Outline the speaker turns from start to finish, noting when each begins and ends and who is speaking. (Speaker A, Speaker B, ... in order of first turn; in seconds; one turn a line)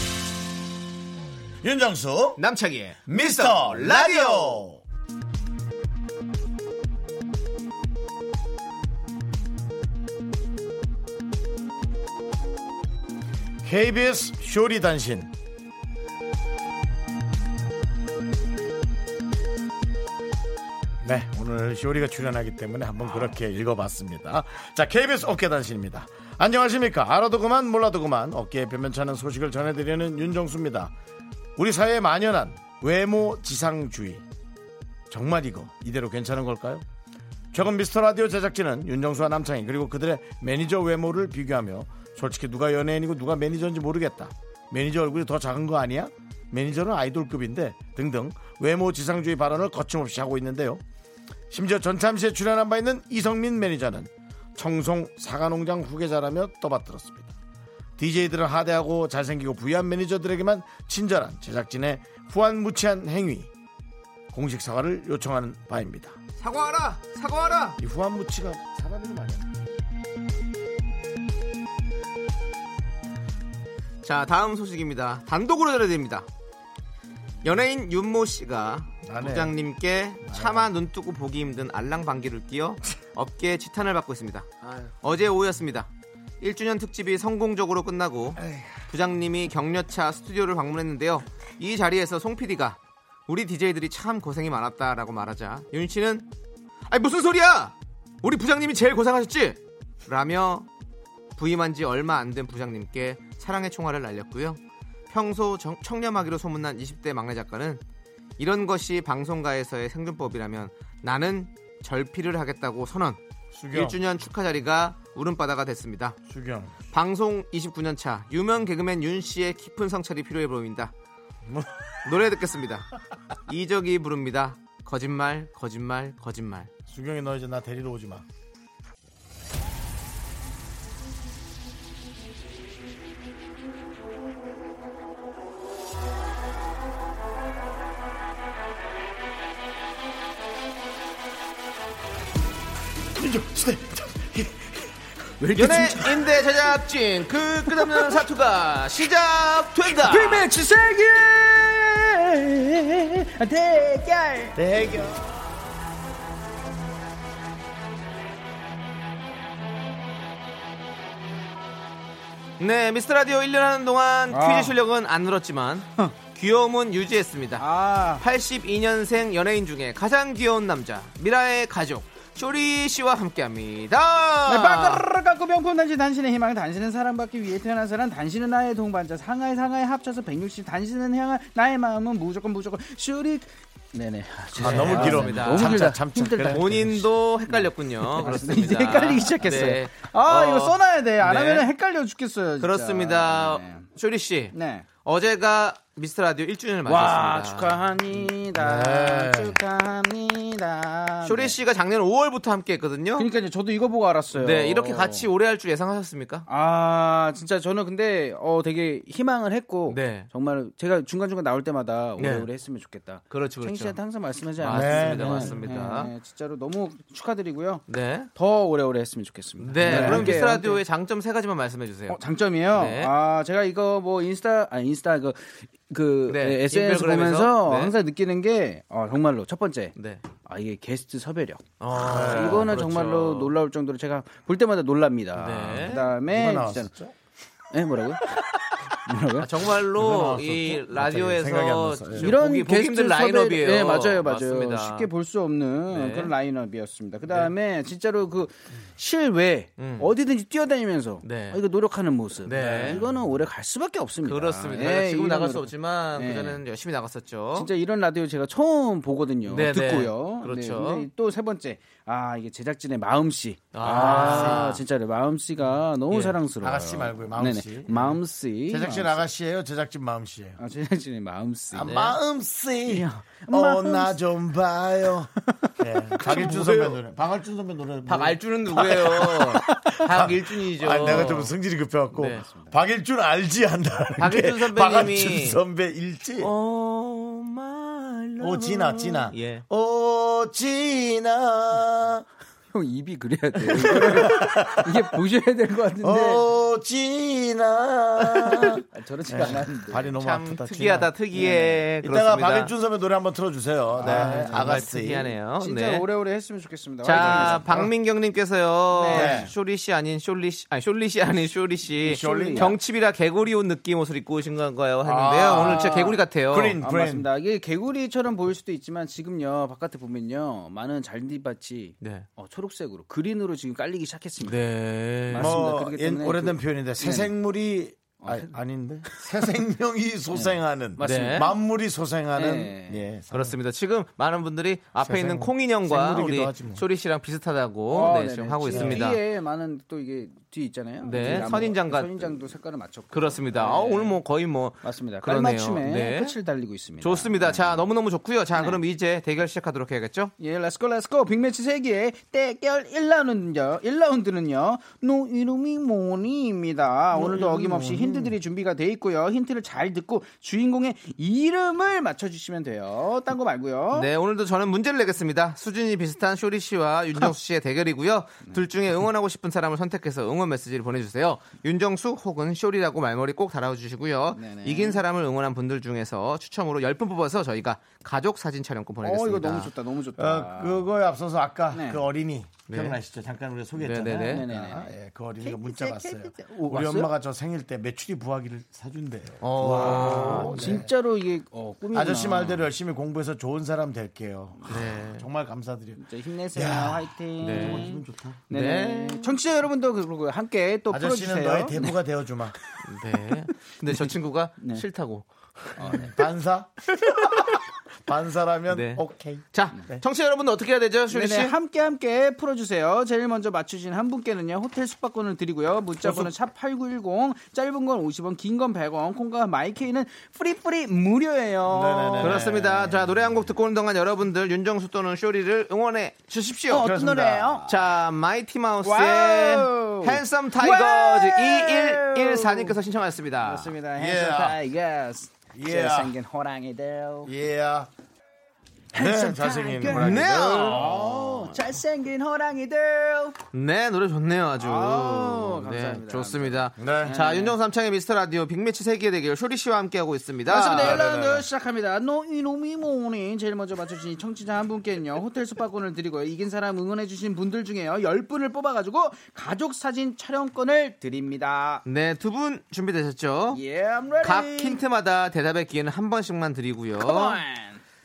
Speaker A: 1.6-2.4
Speaker B: 2.4-4.6
Speaker A: 3.1-4.8
Speaker A: 13.6-15.3
Speaker A: 21.0-30.9
Speaker A: 31.6-34.2
Speaker A: 35.1-36.8
Speaker A: 37.5-50.8
Speaker A: 51.5-57.3
Speaker A: 58.0-63.5
Speaker A: 64.3-66.2
Speaker B: 66.4-67.8
Speaker A: 67.8-69.5
Speaker B: 74.0-76.3
Speaker B: 77.4-84.5
Speaker A: 79.0-79.5
Speaker A: 80.2-80.7
Speaker A: 84.6-84.9
Speaker B: 85.0-85.9
Speaker B: 86.4-96.3
Speaker A: 88.4-88.7
Speaker B: 96.9-100.7
Speaker B: 101.4-107.8
Speaker B: 108.4-113.2
Speaker A: 113.5-114.0
Speaker B: 113.7-116.2
Speaker A: 116.3-116.7
Speaker B: 116.9-120.9
Speaker B: 122.0-122.9
Speaker B: 123.5-126.7
Speaker A: 126.9-128.2
Speaker A: 143.1-144.9
Speaker C: 145.4-146.1
Speaker B: 145.5-150.5
Speaker A: 145.6-146.1
Speaker C: 150.0-155.0
Speaker A: 154.6-155.2
Speaker B: 162.6-175.1
Speaker C: 164.3-164.8
Speaker C: 167.6-168.2
Speaker C: 174.4-193.9
Speaker A: 184.6-186.9
Speaker B: 184.6-185.9
Speaker B: 186.5-191.7
Speaker B: 192.6-197.8
Speaker C: 194.5-194.9
Speaker C: 196.8-201.6
Speaker A: 198.6-199.6
Speaker B: 201.2-203.3
Speaker C: 203.2-205.3
Speaker B: 204.3-206.4
Speaker C: 206.5-217.8
Speaker B: 209.9-210.3
Speaker B: 212.2-212.5
Speaker B: 213.3-214.0
Speaker B: 214.6-216.1
Speaker A: 214.7-215.6
Speaker B: 217.9-218.3
Speaker C: 218.3-220.8
Speaker B: 219.6-223.1
Speaker A: 219.8-220.3
Speaker C: 222.1-236.9
Speaker B: 226.3-227.9
Speaker B: 229.9-230.2
Speaker B: 231.8-233.5
Speaker A: 232.0-232.8
Speaker B: 235.3-236.1
Speaker A: 236.2-237.1
Speaker C: 237.7-238.4
Speaker C: 239.0-239.6
Speaker B: 239.4-245.1
Speaker A: 239.9-242.3
Speaker C: 242.2-256.6
Speaker B: 245.9-246.3
Speaker B: 247.3-247.5
Speaker B: 249.8-250.1
Speaker B: 251.2-251.6
Speaker B: 252.4-253.0
Speaker B: 254.2-257.7
Speaker C: 257.5-269.2
Speaker B: 259.5-261.1
Speaker B: 263.7-264.8
Speaker A: 263.8-264.6
Speaker B: 266.1-266.4
Speaker A: 266.6-270.6
Speaker C: 270.6-271.9
Speaker A: 271.7-279.5
Speaker B: 271.8-272.2
Speaker C: 272.9-274.2
Speaker B: 276.2-277.0
Speaker B: 278.1-281.6
Speaker C: 278.9-279.8
Speaker A: 280.0-286.5
Speaker B: 282.1-282.4
Speaker C: 282.4-282.7
Speaker B: 284.2-285.6
Speaker B: 286.4-289.6
Speaker A: 288.4-292.2
Speaker C: 292.7-296.5
Speaker A: 293.7-295.0
Speaker A: 296.0-301.3
Speaker C: 298.9-300.1
Speaker B: 300.2-302.7
Speaker C: 301.3-301.9
Speaker A: 302.0-305.3
Speaker C: 303.9-307.9
Speaker B: 304.0-306.1
Speaker B: 307.0-316.8
Speaker A: 307.2-307.7
Speaker C: 308.9-309.5
Speaker A: 309.1-309.5
Speaker C: 311.9-312.8
Speaker A: 312.1-312.7
Speaker A: 315.0-317.3
Speaker C: 315.4-324.6
Speaker B: 322.0-322.3
Speaker B: 324.4-325.6
Speaker C: 325.3-327.3
Speaker A: 325.4-333.6
Speaker C: 328.2-328.6
Speaker C: 330.3-331.5
Speaker B: 331.0-331.5
Speaker C: 332.3-333.1
Speaker B: 333.3-339.2
Speaker A: 335.0-336.8
Speaker C: 337.9-344.2
Speaker A: 338.7-339.0
Speaker B: 341.0-342.3
Speaker B: 343.1-346.4
Speaker C: 344.8-347.9
Speaker B: 347.0-350.3
Speaker C: 348.5-348.8
Speaker C: 350.4-364.1
Speaker A: 357.1-358.4
Speaker B: 363.9-379.7
Speaker C: 374.3-375.0
Speaker C: 379.0-380.9
Speaker A: 380.2-390.9
Speaker C: 381.7-382.1
Speaker B: 382.7-383.0
Speaker B: 383.8-384.4
Speaker C: 384.2-387.1
Speaker B: 389.4-390.8
Speaker C: 389.6-392.7
Speaker A: 391.9-398.4
Speaker B: 394.7-395.3
Speaker C: 396.0-401.9
Speaker B: 397.4-397.9
Speaker B: 398.5-399.3
Speaker A: 400.9-402.5
Speaker B: 402.8-406.1
Speaker C: 403.9-404.9
Speaker C: 405.8-406.1
Speaker A: 406.0-406.7
Speaker B: 407.1-407.5
Speaker A: 408.0-410.0
Speaker B: 408.7-411.6
Speaker C: 411.1-422.5
Speaker A: 416.0-416.3
Speaker A: 421.7-423.1
Speaker B: 422.2-426.9
Speaker C: 426.7-427.7
Speaker A: 426.8-427.6
Speaker B: 427.6-433.8
Speaker C: 428.8-432.8
Speaker C: 433.4-437.3
Speaker A: 433.9-434.6
Speaker A: 435.5-436.1
Speaker A: 437.2-437.9
Speaker C: 438.9-443.4
Speaker A: 438.9-441.6
Speaker B: 439.9-440.8
Speaker B: 443.5-451.2
Speaker C: 444.6-447.6
Speaker A: 446.8-447.2
Speaker C: 450.4-461.8
Speaker A: 450.8-451.4
Speaker B: 461.8-463.6
Speaker C: 463.5-464.8
Speaker B: 464.2-467.4
Speaker C: 467.0-467.8